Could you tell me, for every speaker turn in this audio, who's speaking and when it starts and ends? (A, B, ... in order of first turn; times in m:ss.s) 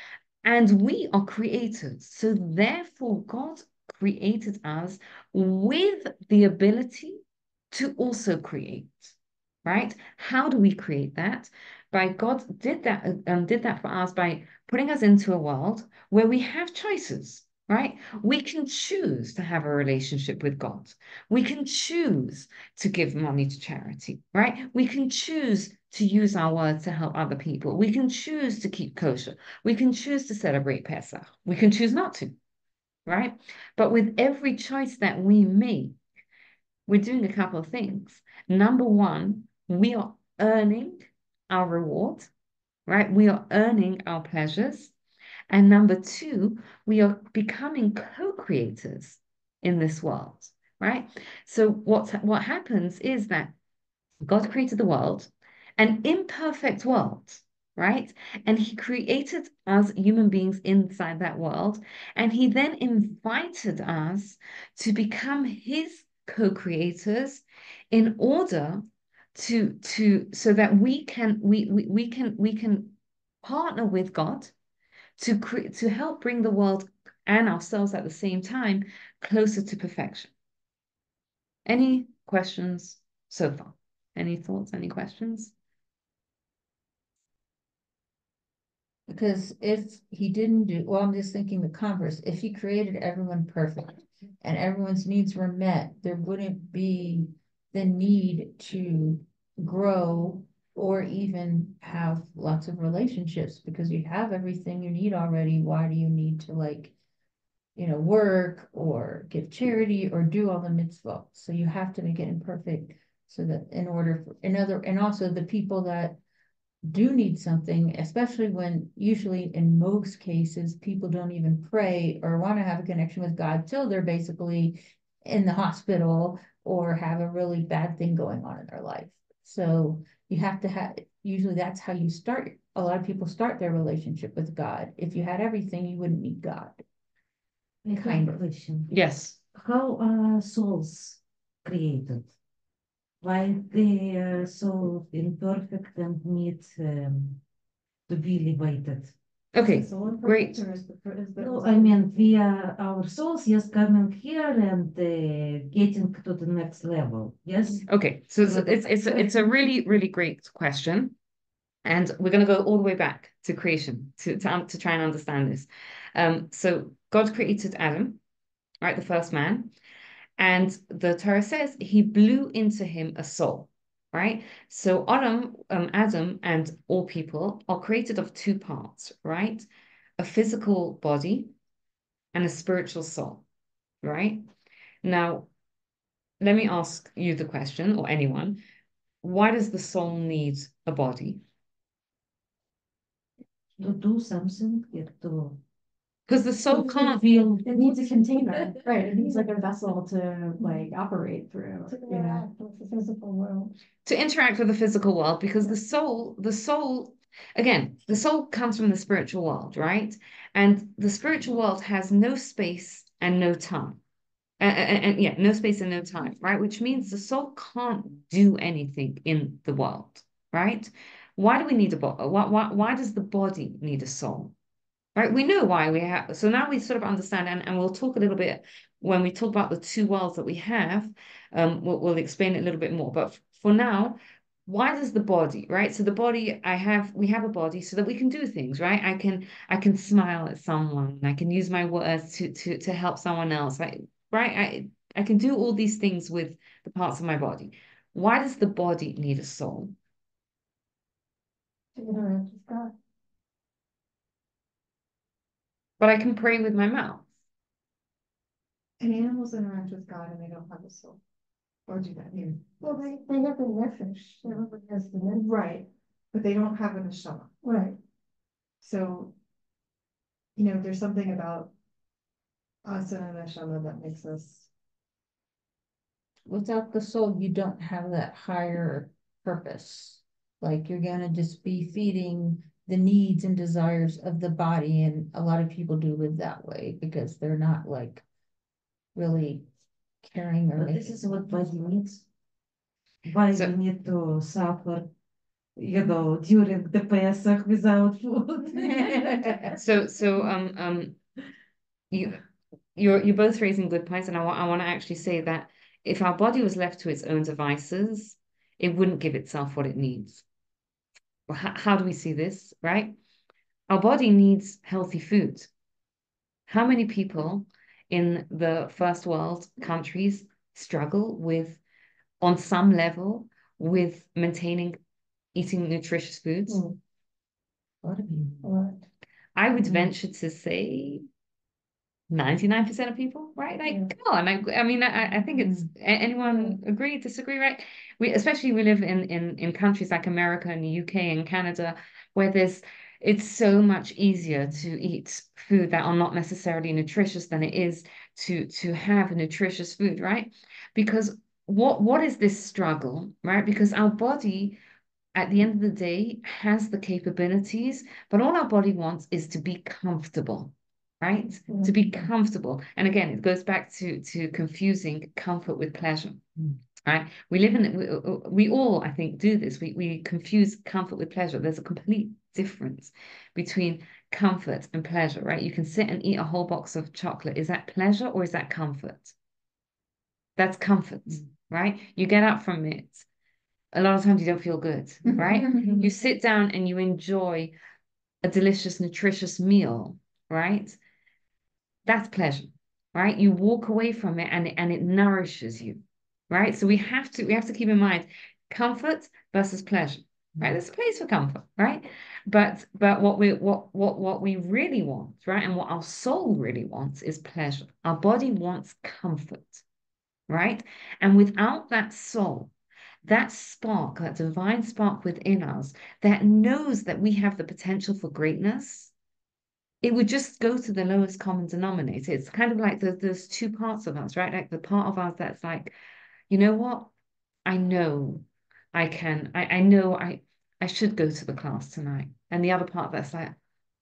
0:00.4-0:32.4 A
0:33.1-0:36.0 A
0:36.9-0:42.3 A
0:42.9-0:44.9 A
0:45.5-0:53.6 A
0:54.2-1:08.8 A
1:09.4-1:14.5 A
1:15.2-1:20.3 A
1:21.7-1:25.5 A
1:29.1-1:46.9 B
1:47.8-1:56.2 B
1:56.8-2:16.8 B
2:17.8-2:18.9 C
2:17.9-2:18.4 B
2:18.9-2:19.4 A
2:19.5-2:22.3 C
2:23.2-2:27.4 C
2:28.1-2:29.2 C
2:29.5-2:30.6 A
2:29.6-2:32.4 D
2:31.4-2:37.9 C
2:37.9-2:41.2 A
2:38.4-2:39.3 C
2:41.8-2:48.2 A
2:48.8-2:49.7 A
2:50.4-2:59.7 A
3:00.2-3:01.5 A
3:02.3-3:03.4 A
3:04.0-3:04.5 A
3:05.0-3:05.5 A
3:06.4-3:08.6 A
3:09.2-3:11.4 A
3:13.8-3:15.6 C
3:16.3-3:17.2 A
3:16.7-3:18.0 C
3:17.6-3:22.4 E
3:19.2-3:19.4 F
3:20.6-3:20.9 F
3:21.9-3:23.7 F
3:24.0-3:34.0 A
3:34.6-3:44.5 A
3:45.2-4:09.9 A
4:12.0-4:12.9 F
4:16.0-4:17.3 A
4:19.0-4:21.2 D
4:21.9-4:22.8 D
4:22.8-4:25.6 F
4:25.5-4:27.6 D
4:27.6-4:28.0 F
4:28.8-4:29.3 D
4:30.6-4:31.7 D
4:32.8-4:34.7 D
4:36.5-4:48.2 B
4:49.2-4:49.7 B
4:50.2-4:51.7 B
4:50.8-4:52.2 C
4:53.3-4:55.1 C
4:55.8-4:59.7 C
4:58.8-4:59.6 B
4:59.8-5:01.2 A
5:02.1-5:02.4 A
5:03.0-5:10.4 A
5:11.5-5:13.2 A
5:13.9-5:15.7 A
5:16.7-5:21.8 A
5:22.4-5:25.0 A
5:25.5-5:26.8 A
5:26.7-5:27.0 F
5:28.0-5:28.7 C
5:28.6-5:29.0 F
5:29.6-5:31.2 A
5:32.3-5:54.8 A
5:33.8-5:34.1 F
5:36.5-5:36.8 F
5:55.4-6:06.4 A
6:01.7-6:02.0 F
6:07.1-6:19.4 A
6:20.6-6:23.3 A
6:23.9-6:27.7 A
6:25.4-6:25.9 B
6:28.4-6:31.0 A
6:32.1-6:49.8 A
6:50.5-6:52.7 A
6:53.2-6:59.1 A
7:00.0-7:06.0 A
7:06.5-7:07.1 A
7:07.7-7:13.6 A